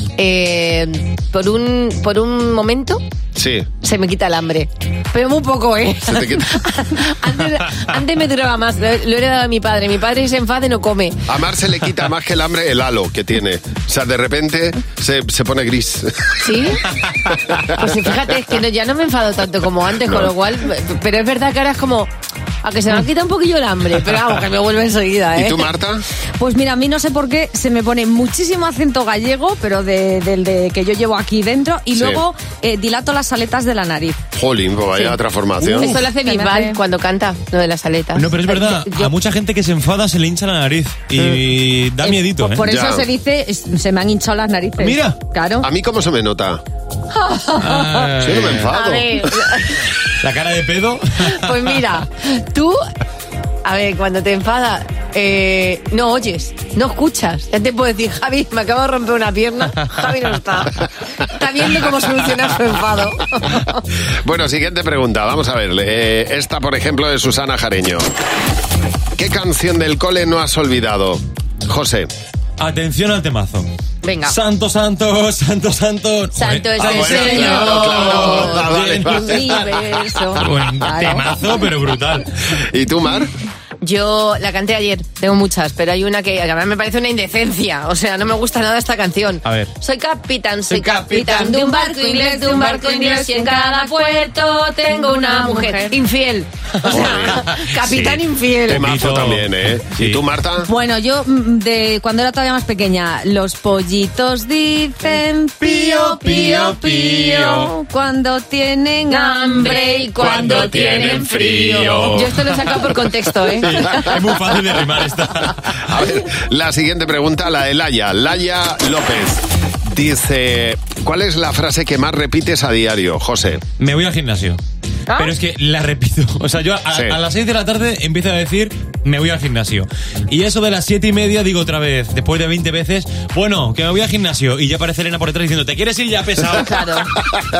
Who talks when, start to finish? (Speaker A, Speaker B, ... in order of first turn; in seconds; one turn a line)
Speaker A: 0.2-3.0
Speaker B: 3.4-3.7
Speaker A: 3.8-11.2
Speaker B: 6.1-6.5
Speaker B: 11.3-16.5
Speaker A: 16.4-17.0
Speaker A: 17.6-22.1
Speaker B: 20.0-20.3
Speaker A: 22.6-25.7
Speaker B: 25.4-26.0
Speaker C: 26.4-34.2
Speaker B: 31.9-32.2
Speaker B: 34.3-36.0
Speaker C: 35.6-36.8
Speaker A: 35.6-38.5
Speaker D: 38.1-42.7
Speaker C: 42.0-45.7
Speaker B: 42.6-43.0
Speaker D: 44.8-45.2
Speaker B: 45.6-46.6
Speaker A: 47.1-47.8
Speaker D: 47.6-48.7
Speaker B: 48.2-49.5
Speaker A: 48.7-49.9
Speaker D: 50.2-51.8
Speaker A: 51.2-52.8
Speaker A: 53.6-63.8
Speaker B: 64.1-68.1
Speaker B: 69.2-72.1
Speaker D: 72.6-73.7
Speaker A: 74.0-74.4
Speaker D: 74.2-79.6
Speaker A: 76.3-78.7
Speaker B: 76.8-80.1
Speaker C: 78.9-81.3
Speaker D: 80.4-82.3
Speaker B: 82.5-83.3
Speaker A: 83.8-98.9
Speaker D: 89.4-89.7
Speaker C: 90.7-96.0
Speaker D: 96.8-100.2
Speaker B: 96.9-97.4
Speaker B: 98.7-100.7
Speaker C: 100.6-111.4
Speaker D: 105.6-107.7
Speaker A: 109.1-114.2
Speaker D: 110.2-116.1
Speaker B: 115.9-123.6
Speaker D: 123.8-124.6
Speaker D: 125.1-137.2
Speaker B: 126.9-127.2
Speaker A: 136.6-137.1